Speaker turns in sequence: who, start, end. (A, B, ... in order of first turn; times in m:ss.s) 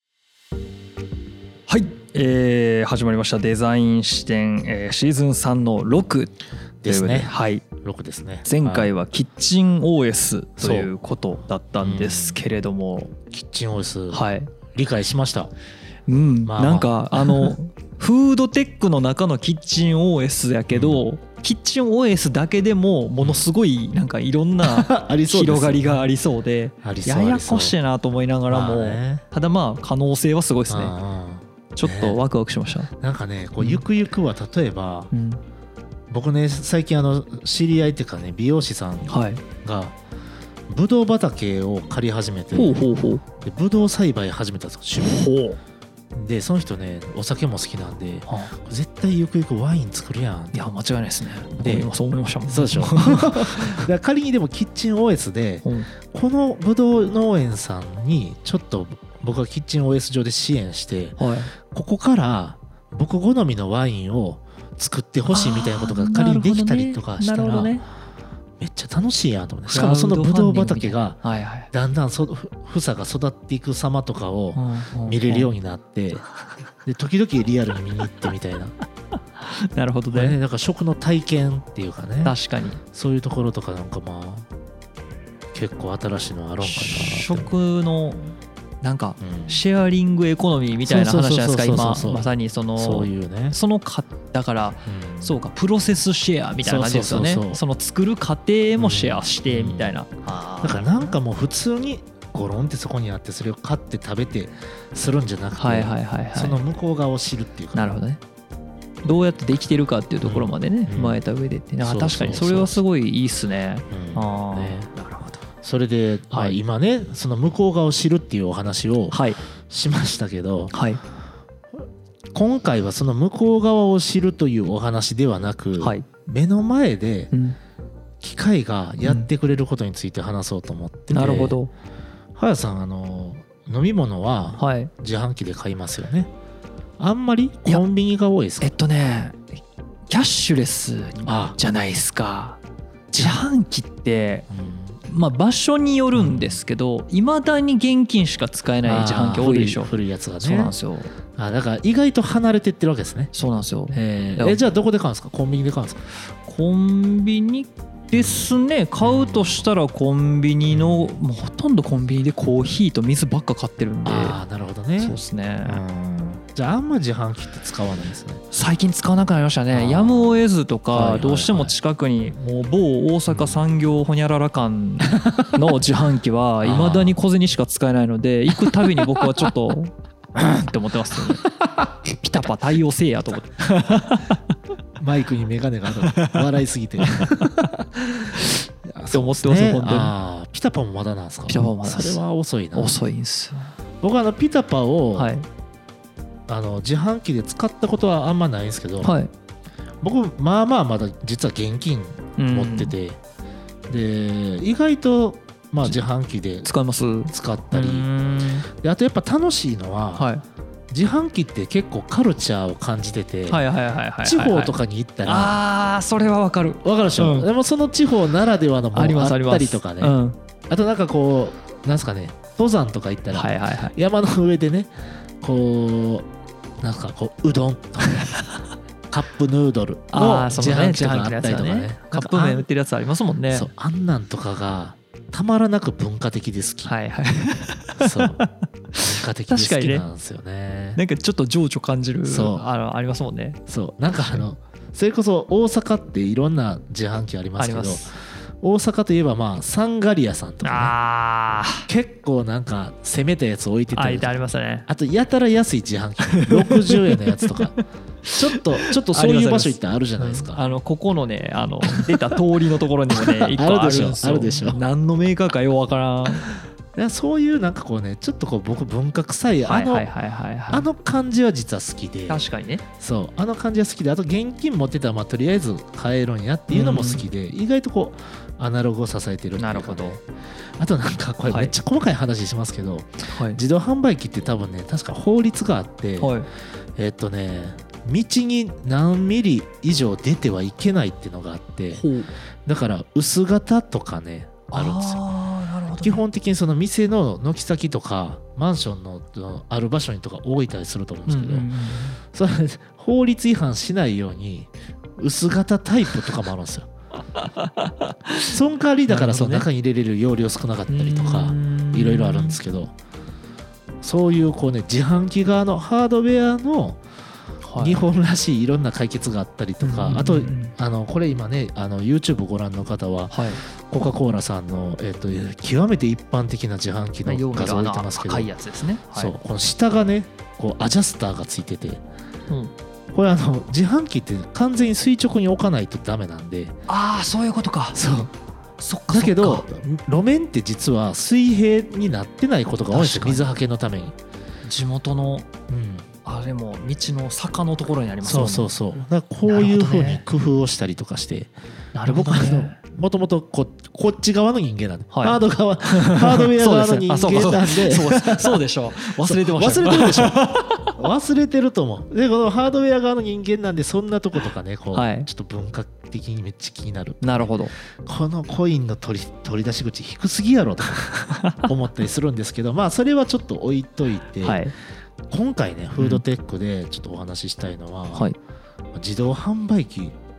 0:01.7-0:06.3 A
0:06.8-0:08.9 B
0:06.9-0:07.6 A
0:08.4-0:13.1 A
0:10.6-0:10.9 B
0:11.8-0:12.4 B
0:13.3-0:15.5 B
0:14.1-0:14.5 A
0:16.1-0:30.9 A
0:16.4-0:17.5 B
0:20.7-0:21.0 B
0:23.2-0:23.4 B
0:24.6-0:26.1 B
0:26.8-0:27.7 B
0:28.5-0:29.2 B
0:30.7-0:32.2 B
0:31.8-0:32.9 A
0:33.0-0:35.1 B
0:33.6-0:33.8 A
0:35.1-0:35.4 A
0:36.1-0:40.0 B
0:39.1-0:39.4 A
0:40.7-0:42.8 B
0:42.5-0:43.2 A
0:43.4-0:45.2 B
0:45.0-0:45.6 A
0:46.1-0:50.6 B
0:48.3-0:48.5 A
0:50.5-0:53.8 A
0:51.5-0:51.9 B
0:52.5-1:07.8 B
0:55.6-0:55.9 A
1:01.2-1:01.5 A
1:05.3-1:07.8 A
1:08.6-1:11.2 B
1:09.7-1:11.7 A
1:11.7-1:16.2 B
1:14.5-1:15.5 A
1:16.8-1:18.7 B
1:19.4-1:20.4 A
1:20.1-1:22.4 B
1:22.2-1:22.8 A
1:22.9-1:24.5 B
1:25.5-1:27.5 B
1:26.6-1:41.2 A
1:29.2-1:29.6 B
1:30.8-1:33.6 B
1:34.9-1:35.3 B
1:36.6-1:37.6 B
1:38.8-1:40.0 B
1:40.6-1:48.0 B
1:45.6-1:46.6 A
1:47.7-1:48.2 A
1:49.0-1:55.4 A
1:50.2-1:51.2 B
1:51.8-1:52.8 B
1:53.9-1:54.9 B
1:55.6-2:00.7 B
1:59.1-1:59.4 A
2:00.7-2:01.0 A
2:02.3-2:07.3 B
2:05.8-2:06.0 A
2:07.3-2:07.6 A
2:08.2-2:11.6 B
2:09.0-2:09.3 A
2:11.1-2:11.7 A
2:12.4-2:16.3 B
2:14.6-2:14.9 A
2:17.0-2:18.7 B
2:18.6-2:19.5 A
2:20.1-2:22.6 A
2:21.2-2:21.6 B
2:23.1-2:23.4 B
2:23.1-2:24.5 A
2:24.5-2:25.0 B
2:25.0-2:31.1 A
2:26.1-2:26.6 B
2:28.8-2:30.7 B
2:31.4-2:33.4 B
2:33.3-2:34.6 A
2:33.9-2:36.0 B
2:36.4-2:44.4 A
2:38.1-2:39.7 B
2:40.7-2:41.2 B
2:44.0-2:48.4 B
2:45.0-2:45.8 A
2:48.5-3:01.5 A
2:49.7-2:51.7 B
2:53.3-2:53.6 B
2:55.2-2:55.5 B
2:56.6-2:57.2 B
2:58.6-2:59.5 B
3:02.1-3:04.4 A
3:05.0-3:13.0 B
3:06.1-3:06.4 A
3:07.0-3:07.5 A
3:09.1-3:10.1 A
3:11.5-3:12.2 A
3:12.7-3:13.7 A
3:14.0-3:15.3 B
3:15.1-3:15.4 A
3:16.5-3:19.1 B
3:19.0-3:19.3 A
3:20.0-3:23.2 B
3:22.4-3:22.9 A
3:23.9-3:26.7 B
3:26.6-3:28.7 A
3:27.3-3:28.1 B
3:28.7-3:30.3 B
3:30.2-3:30.4 A
3:30.9-3:33.6 B
3:33.5-3:37.5 A
3:34.2-3:35.6 B
3:36.8-3:40.2 B
3:38.9-3:40.4 A
3:40.7-3:46.3 B
3:43.3-3:43.9 A
3:46.8-3:48.4 B
3:49.1-3:52.6 B
3:50.1-3:53.7 A
3:53.5-3:56.9 B
3:56.8-4:00.0 A
3:58.0-3:58.4 B
3:59.0-4:01.0 B
4:01.0-4:04.4 A
4:02.2-4:02.6 B
4:03.7-4:10.9 B
4:07.6-4:08.1 A
4:10.6-4:11.9 A
4:11.9-4:14.3 B
4:13.9-4:14.9 A
4:14.9-4:17.8 B
4:16.3-4:26.4 A
4:18.3-4:20.6 B
4:21.8-4:22.4 B
4:23.1-4:24.8 B
4:26.4-4:30.1 B
4:29.6-4:30.9 A
4:30.7-4:32.4 B
4:32.3-4:32.8 A
4:33.0-4:40.2 B
4:36.7-4:37.2 A
4:39.6-4:40.2 A
4:40.8-4:46.4 B
4:41.5-4:41.7 A
4:43.3-4:43.6 A
4:46.2-4:46.5 A
4:47.0-4:52.0 B
4:51.9-4:52.3 A
4:52.6-4:55.2 B
4:54.7-4:56.2 A
4:56.0-5:01.7 B
5:01.3-5:02.2 A
5:02.2-5:06.9 B
5:07.4-5:08.6 A
5:08.5-5:12.9 B
5:09.1-5:09.6 A
5:10.9-5:12.6 A
5:14.0-5:17.0 B
5:17.6-5:18.0 A
5:17.8-5:28.5 B
5:19.8-5:20.8 A
5:23.3-5:23.6 A
5:27.2-5:29.3 A
5:29.1-5:32.0 B
5:33.1-5:36.8 B
5:36.9-5:38.0 A
5:37.9-5:38.3 B
5:38.8-5:39.6 A
5:39.1-5:44.1 B
5:42.9-5:43.5 A
5:44.6-5:45.5 A
5:45.7-5:46.1 B
5:46.2-5:48.7 A
5:48.2-5:51.5 B
5:49.4-5:50.2 A
5:51.9-5:52.8 A
5:52.0-6:14.7 B
5:55.1-6:01.0 A
6:04.9-6:05.3 A
6:07.2-6:07.7 A
6:11.3-6:11.7 A
6:14.4-6:14.7 A
6:15.3-6:18.3 B
6:16.0-6:16.2 A
6:18.9-6:20.1 B